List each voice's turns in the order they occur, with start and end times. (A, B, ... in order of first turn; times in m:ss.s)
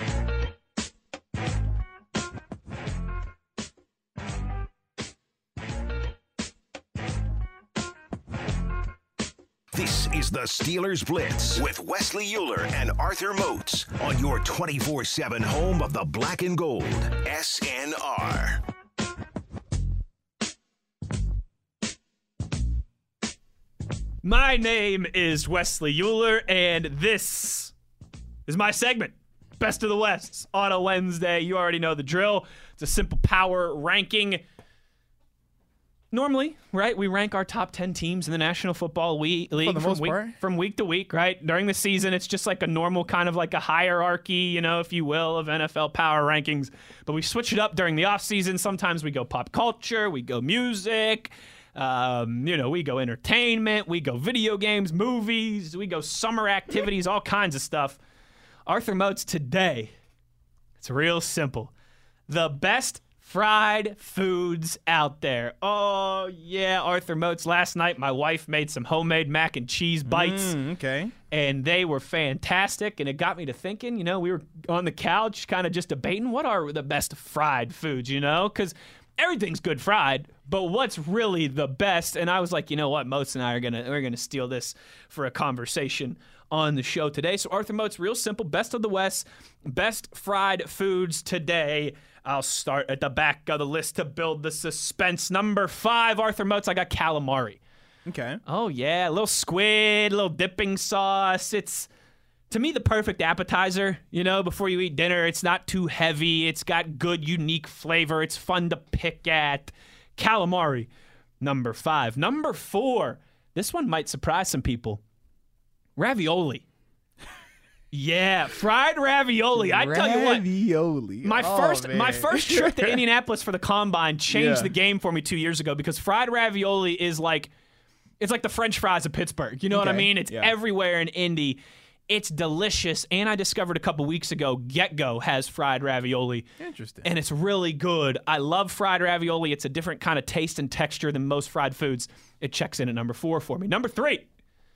0:09.7-0:18.6 A
0:24.2-0:27.7 B
0:28.5-0:34.4 B
0:36.1-0:58.0 B
0:39.6-0:40.4 C
0:58.7-0:59.9 B
1:00.8-1:01.7 B
1:02.3-1:10.6 B
1:10.0-1:11.1 C
1:11.3-1:37.6 B
1:38.1-1:38.4 C
1:38.5-1:41.9 B
1:42.5-1:50.9 B
1:51.4-1:55.0 B
1:56.0-1:56.6 B
1:57.9-2:00.4 B
1:59.6-2:03.0 C
2:01.2-2:07.5 B
2:04.3-2:04.7 C
2:08.2-2:16.5 B
2:09.7-2:10.5 C
2:16.6-2:17.1 C
2:17.0-2:24.3 B